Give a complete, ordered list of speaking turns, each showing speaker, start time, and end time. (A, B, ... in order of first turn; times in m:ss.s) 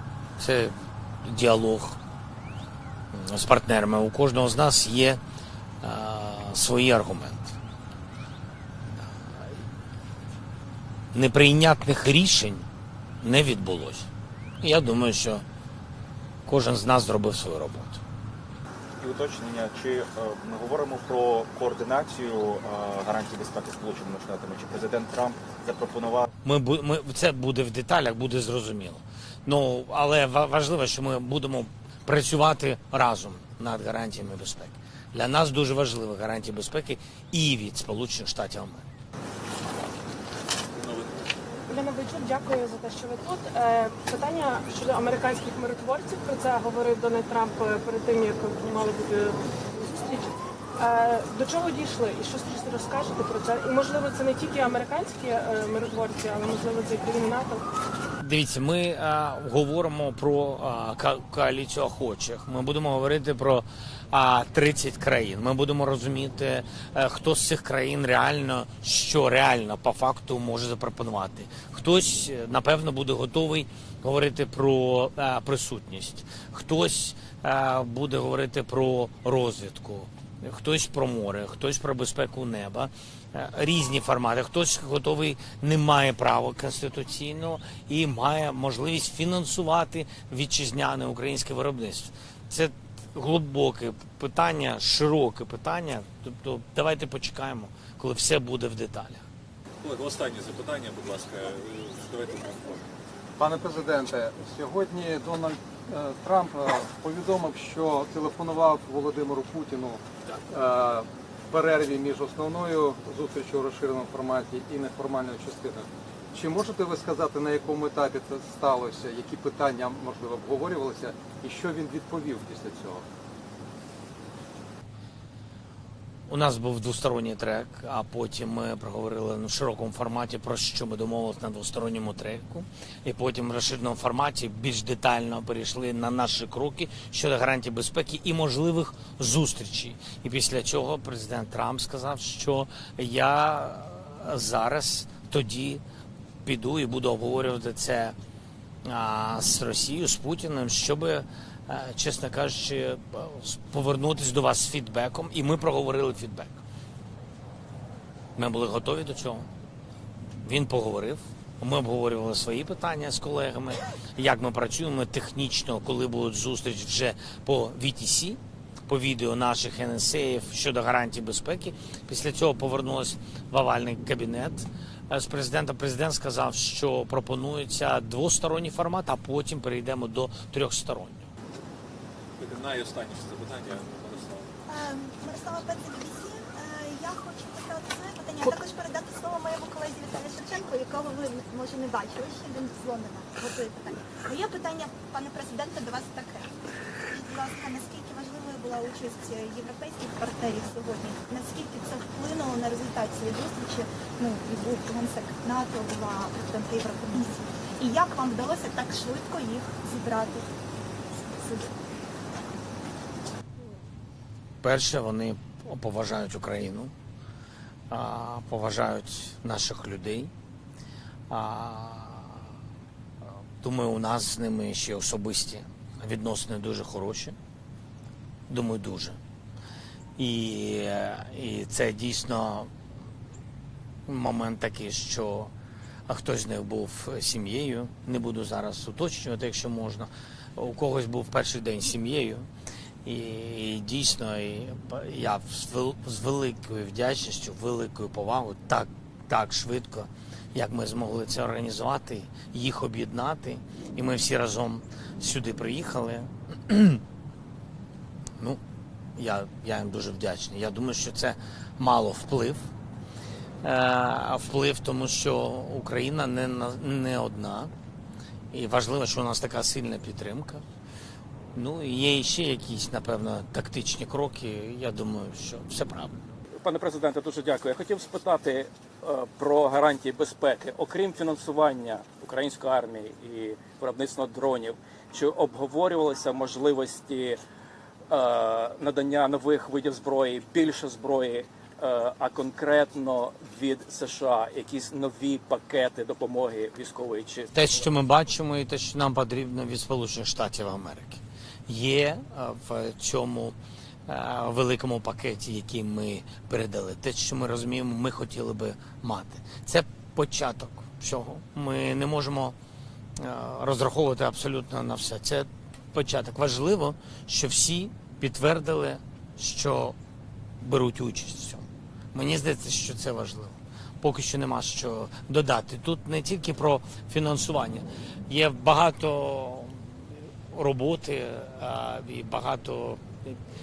0:00.4-0:02.0 A
0:03.1-0:05.2 A
0:05.8-0:07.6 A
0:11.1-0:12.7 A
0:13.2-0:14.1 A
0:14.6-0:15.4 A
0:16.5-0:18.0 A
0:19.0-0:26.3 B
0:26.4-0:38.9 A
0:40.8-0:41.3 C
0:41.7-0:57.6 D
0:58.2-1:39.2 A
1:39.8-1:42.9 C
1:43.4-2:03.0 E
2:06.3-2:25.8 A
2:26.4-2:28.2 A
2:28.8-2:36.6 A
2:38.4-2:39.5 A
2:40.4-3:01.3 A
3:02.4-3:04.5 C
3:04.7-3:16.5 F
3:17.1-3:30.5 F
3:31.3-3:31.7 F
3:34.6-3:36.9 A
3:37.9-3:40.3 A
3:41.3-3:42.5 A
3:43.6-3:47.4 A
3:48.5-3:49.2 A
3:50.2-3:52.7 A
3:54.1-3:55.5 A
3:56.1-4:02.5 A
4:03.0-4:17.0 A
4:19.2-4:22.7 A
4:23.6-4:27.7 A
4:28.5-4:30.6 A
4:31.6-4:36.2 A
4:36.6-4:47.4 G
4:48.1-4:57.6 G
4:57.5-5:03.6 A
5:04.1-5:12.6 A
5:13.2-5:20.0 A
5:20.6-5:33.4 A